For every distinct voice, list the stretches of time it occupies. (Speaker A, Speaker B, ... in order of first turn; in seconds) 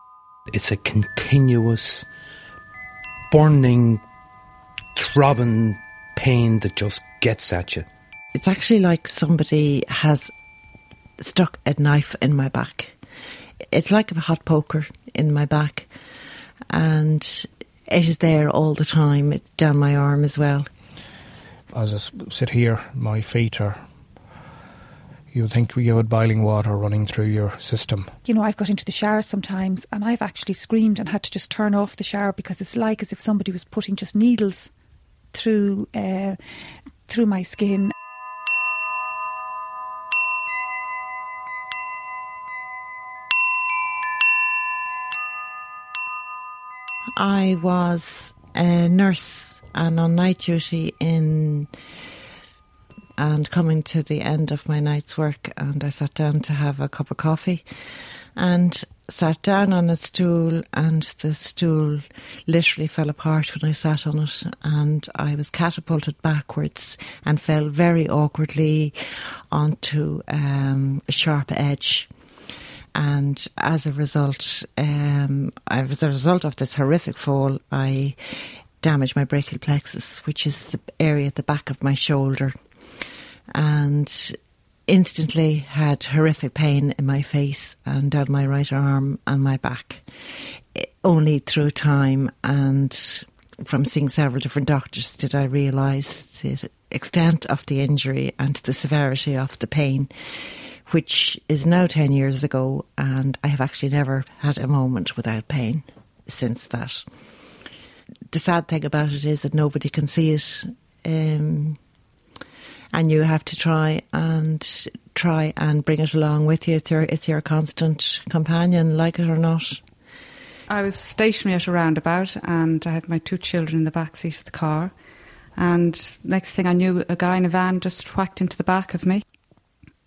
Speaker A: 0.5-2.1, 3.3-4.0, 4.9-7.9
Speaker B: 8.3-10.3, 11.2-12.9, 13.7-15.9, 16.7-20.7, 47.1-51.7, 53.2-57.6, 58.4-69.0, 69.5-72.1, 72.9-78.2, 78.8-82.5, 83.5-90.0, 90.7-100.1, 100.9-107.0, 108.3-111.8, 112.9-119.8
Speaker C: 21.7-23.9, 25.3-28.1
Speaker D: 28.2-34.7, 35.3-37.9
Speaker E: 120.7-124.9, 125.5-129.2